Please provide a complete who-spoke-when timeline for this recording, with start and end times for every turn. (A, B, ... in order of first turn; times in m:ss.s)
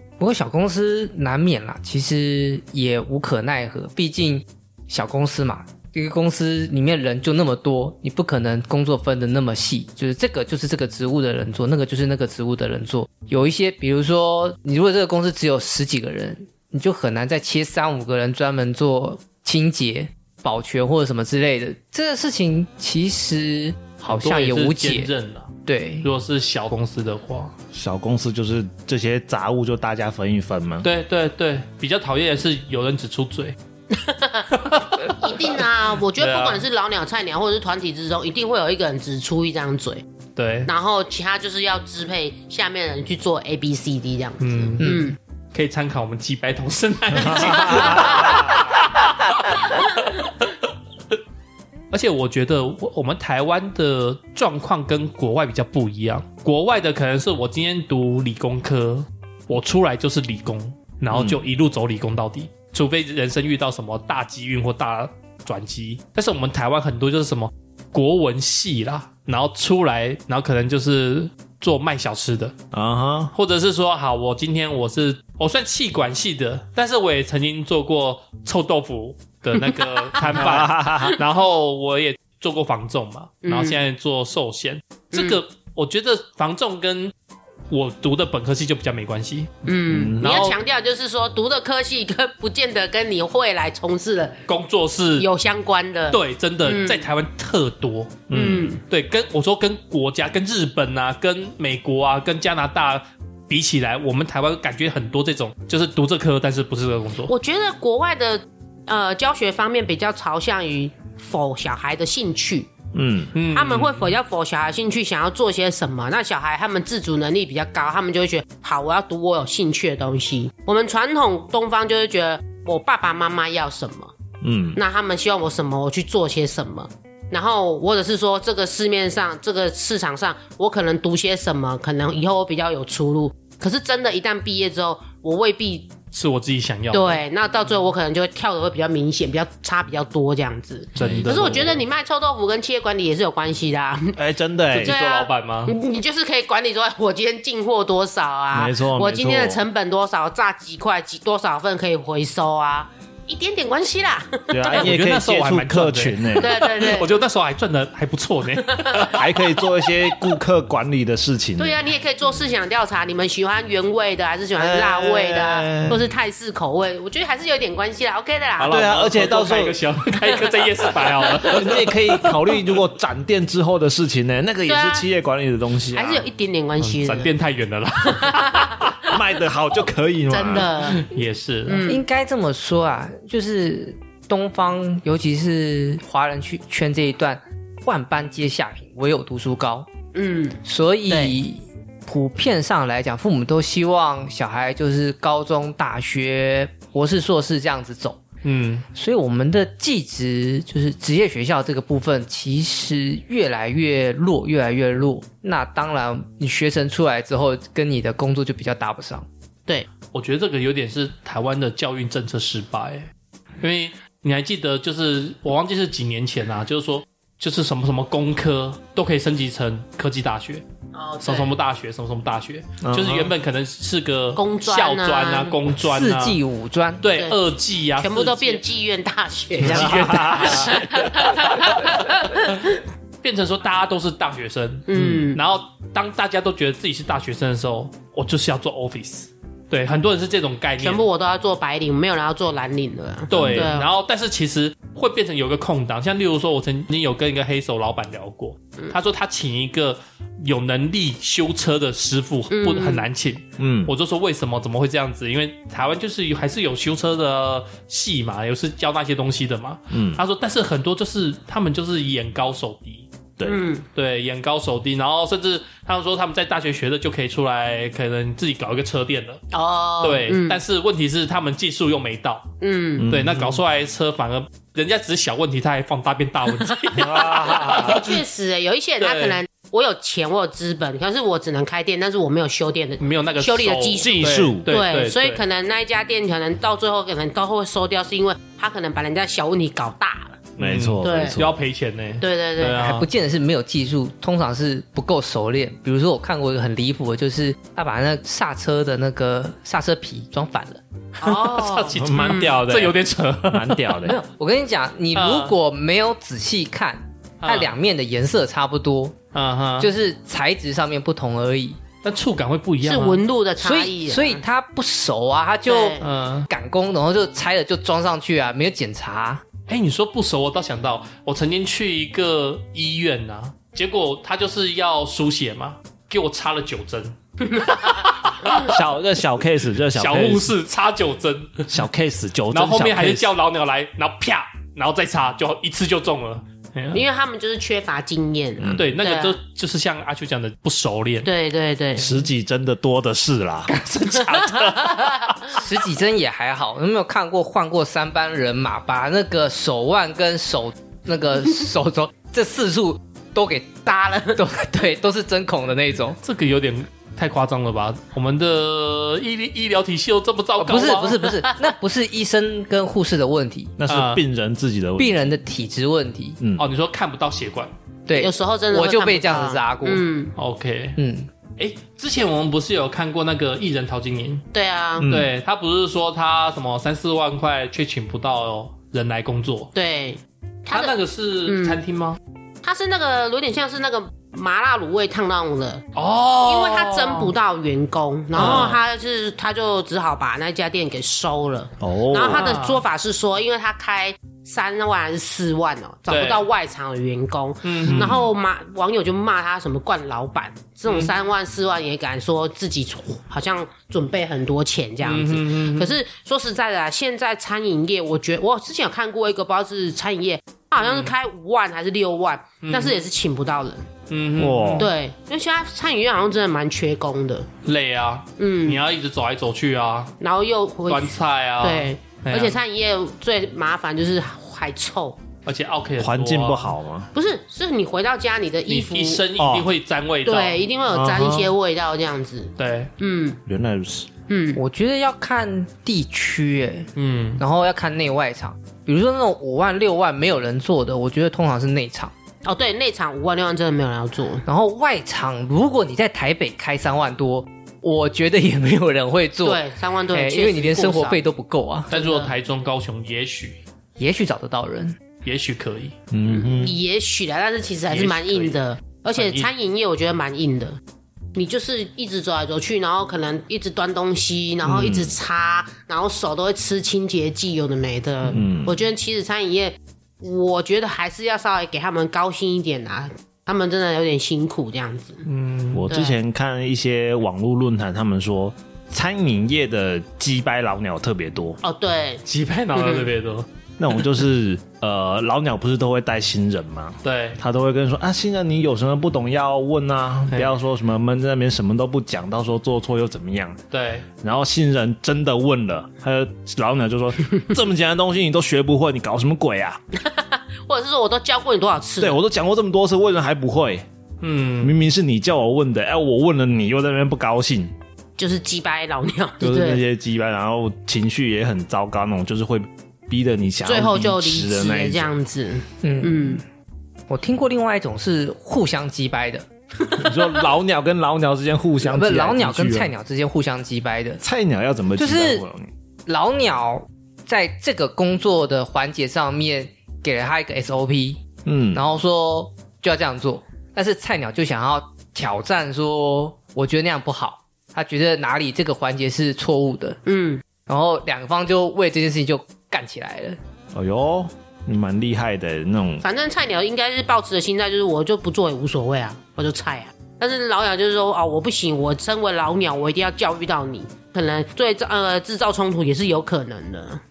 0:00.2-0:25.1 A
0:24.1-0:27.5 B
0:25.6-0:26.1 A
0:27.7-0:30.9 C
0:30.8-0:33.6 B
0:33.9-0:40.0 D
0:34.5-0:36.7 B
0:40.4-0:40.7 B
0:40.7-0:45.2 D
0:44.4-0:50.2 B
0:44.8-0:45.1 A
0:47.2-0:48.5 C
0:47.3-0:48.6 D
0:51.9-1:12.5 B
1:01.1-1:01.4 C
1:12.7-1:13.3 C
1:13.3-1:27.1 B
1:19.7-1:20.6 D
1:20.2-1:21.2 C
1:23.4-1:23.8 D
1:25.1-1:25.4 D
1:27.7-1:29.6 B
1:29.6-1:34.4 D
1:29.9-1:30.4 C
1:30.2-1:30.6 B
1:34.5-1:35.3 B
1:35.2-1:37.0 D
1:36.1-1:47.3 B
1:38.3-1:38.7 C
1:38.3-1:38.8 D
1:47.3-1:52.7 D
1:52.9-1:53.3 C
1:53.3-1:54.2 B
1:53.5-2:04.1 D
2:04.4-2:04.8 C
2:04.8-2:15.9 D
2:16.1-2:17.2 B
2:16.9-2:24.2 D
2:21.0-2:21.8 C
2:21.0-2:21.8 B
2:24.2-2:24.9 C
2:24.7-2:25.7 B
2:24.8-2:34.9 D
2:28.5-2:29.6 C
2:34.5-2:36.5 C
2:34.6-2:40.1 B
2:36.4-2:37.2 D
2:38.6-2:39.2 D
2:39.1-2:41.8 C
2:41.6-2:48.8 D
2:44.6-2:46.1 C
2:48.6-2:52.4 B
2:48.7-2:49.8 C
2:51.4-2:56.3 C
2:54.7-2:55.0 D
2:55.9-2:57.3 D
2:56.8-2:59.1 B
2:58.0-2:59.2 D
2:59.1-3:00.7 C
3:00.3-3:01.1 D
3:00.8-3:01.9 B
3:01.7-3:02.0 D
3:01.9-3:09.9 A
3:10.1-3:11.4 D
3:10.6-3:18.2 A
3:18.4-3:18.8 B
3:18.9-3:29.3 A
3:30.1-3:33.1 B
3:33.6-3:40.6 B
3:40.9-3:41.5 D
3:41.2-3:46.4 B
3:42.8-3:43.3 C
3:44.4-3:45.6 D
3:45.8-3:47.0 A
3:47.0-3:48.6 B
3:47.1-3:47.4 D
3:48.0-3:52.8 D
3:49.6-3:52.6 B
3:49.6-3:51.0 C
3:53.2-4:01.0 B
3:54.9-3:55.4 D
4:00.8-4:03.9 D
4:03.3-4:23.1 B
4:03.3-4:03.7 C
4:12.5-4:13.1 D
4:13.6-4:13.9 C
4:19.9-4:20.2 C
4:23.4-4:23.8 D
4:23.9-4:29.4 B
4:29.5-4:30.6 D
4:30.0-4:32.5 B
4:32.6-4:33.1 D
4:33.0-4:33.6 C
4:33.0-4:38.2 B
4:37.0-4:38.2 C
4:37.6-4:50.4 D
4:39.0-4:39.4 B
4:43.0-4:45.4 B
4:44.0-4:44.7 C
4:50.6-4:53.1 B
4:50.6-4:51.5 C
4:51.0-4:51.4 D
4:52.2-4:52.8 D
4:52.8-5:00.8 A
5:01.2-5:02.9 D
5:01.2-5:04.1 B
5:01.9-5:02.9 C
5:03.5-5:04.2 C
5:04.0-5:09.2 A
5:05.2-5:05.6 B
5:07.4-5:07.8 B
5:09.3-5:09.9 B
5:09.8-5:11.8 A
5:12.0-5:13.2 B
5:12.8-5:14.4 D
5:13.6-5:19.4 A
5:15.7-5:16.1 D
5:16.0-5:16.5 B
5:19.7-5:28.8 B
5:27.5-5:28.0 D
5:28.5-5:30.5 C
5:29.9-5:31.7 B
5:31.7-5:33.3 C
5:32.5-5:37.1 B
5:36.9-5:39.4 D
5:38.6-5:38.9 C
5:38.7-5:41.3 B
5:41.2-5:42.2 D
5:42.0-5:43.7 C
5:43.7-5:45.4 B
5:44.1-5:45.4 D
5:45.5-5:56.2 A
5:53.9-5:54.4 D
5:56.2-6:01.2 B
6:00.6-6:03.8 A
6:03.8-6:05.3 C
6:03.9-6:04.2 B
6:05.0-6:06.4 A
6:06.4-6:06.7 C
6:06.6-6:07.7 B
6:08.1-6:10.0 A
6:08.1-6:10.3 D
6:10.4-6:11.0 B
6:11.0-6:11.3 A
6:11.6-6:14.4 B
6:14.5-6:15.1 D
6:15.0-6:15.3 C
6:15.1-6:19.7 B
6:19.7-6:21.0 D
6:20.7-6:22.2 B
6:21.5-6:21.8 D
6:22.6-6:25.8 D
6:26.0-6:27.4 B
6:26.4-6:53.9 D
6:28.4-6:28.8 B
6:31.8-6:32.5 C
6:32.3-6:32.8 B
6:36.1-6:36.5 B
6:37.6-6:38.3 B
6:37.9-6:38.3 C
6:40.9-6:41.2 B
6:45.0-6:46.0 B
6:50.8-6:51.2 B
6:52.6-6:53.0 B
6:54.1-6:54.9 B
6:54.4-6:54.9 C
6:54.8-6:57.5 D
6:57.6-7:00.1 B
6:58.4-6:58.8 D
7:00.2-7:05.2 D
7:00.9-7:02.6 B
7:05.5-7:06.8 B
7:06.0-7:07.1 C
7:07.1-7:09.3 D
7:08.7-7:11.5 B
7:09.4-7:09.7 C
7:10.2-7:13.4 D
7:12.6-7:12.9 B
7:13.5-7:14.1 C
7:14.3-7:14.6 D
7:14.6-7:22.1 A
7:17.0-7:17.4 B
7:22.4-7:24.4 D
7:24.4-7:31.9 A
7:29.4-7:31.2 D
7:31.9-7:32.3 D
7:31.9-7:33.6 B
7:34.0-7:35.0 A
7:35.2-7:36.0 B
7:36.1-7:36.8 C
7:36.3-7:40.8 D
7:37.9-7:38.6 B
7:39.1-7:39.5 B
7:41.4-7:55.2 D
7:44.6-7:45.2 C
7:48.3-7:48.8 C
7:55.2-7:55.9 B
7:55.7-8:01.6 C
7:55.9-7:56.2 D
8:01.6-8:02.2 D
8:02.2-8:03.5 B
8:02.8-8:03.1 D
8:03.8-8:13.6 C
8:07.0-8:07.4 B
8:13.7-8:14.1 B
8:14.2-8:19.8 C
8:20.0-8:22.2 D
8:22.0-8:23.8 C
8:24.2-8:24.8 B
8:24.6-8:27.7 C
8:28.2-8:29.8 D
8:29.4-8:35.2 C
8:33.6-8:36.4 D
8:35.8-8:36.4 A
8:37.1-8:39.5 A
8:40.0-8:40.2 D
8:40.0-8:42.9 C
8:41.8-8:44.2 A
8:44.2-8:45.7 C
8:45.0-8:45.4 A
8:46.1-8:51.2 A
8:51.5-8:51.8 C
8:51.7-9:00.0 A
9:00.1-9:00.4 D
9:00.7-9:03.4 A
9:03.7-9:06.0 C
9:06.0-9:17.0 D